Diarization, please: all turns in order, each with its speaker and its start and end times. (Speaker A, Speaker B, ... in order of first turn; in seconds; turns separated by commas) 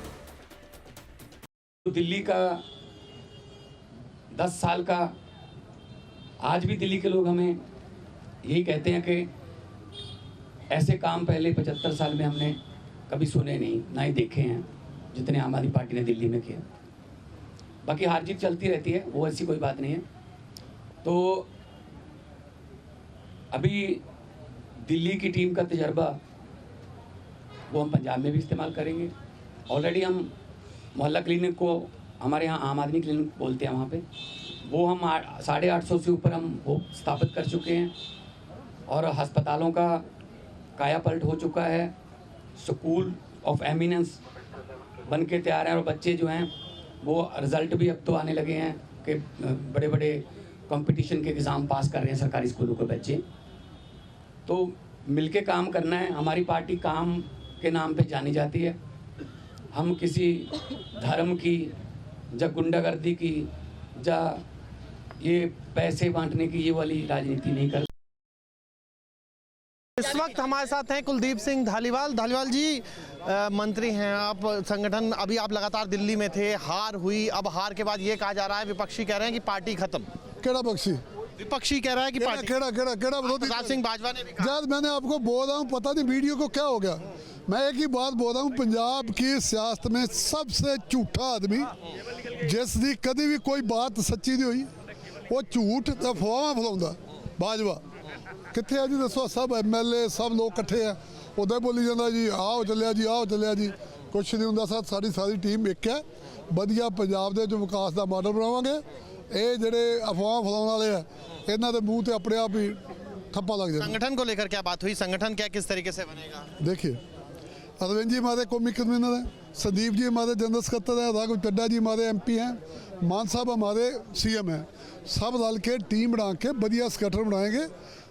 Speaker A: 1.9-2.6, Speaker A: 4.3-5.1, Speaker A: 6.4-7.6, Speaker A: 8.4-9.3, Speaker A: 10.7-12.6, Speaker A: 13.1-16.6, Speaker A: 17.8-20.0, Speaker A: 21.0-21.5, Speaker A: 23.5-24.0, Speaker A: 24.9-26.1, Speaker A: 27.7-29.1, Speaker A: 29.7-30.3, Speaker A: 30.9-34.0, Speaker A: 34.6-37.9, Speaker A: 38.9-40.0, Speaker A: 40.8-41.9, Speaker A: 42.6-44.2, Speaker A: 45.1-46.5, Speaker A: 47.0-53.2, Speaker A: 54.5-58.8, Speaker A: 59.7-61.7, Speaker A: 62.3-64.4, Speaker A: 65.2-67.9, Speaker B: 70.0-80.1, Speaker C: 80.4-81.0, Speaker B: 81.4-82.5, Speaker C: 82.2-83.8, Speaker B: 83.2-84.5, Speaker C: 84.4-91.7, Speaker C: 92.4-94.7, Speaker C: 95.3-97.8, Speaker C: 98.5-112.8, Speaker C: 113.3-113.9, Speaker B: 113.8-116.5, Speaker C: 116.6-117.0, Speaker C: 117.8-127.7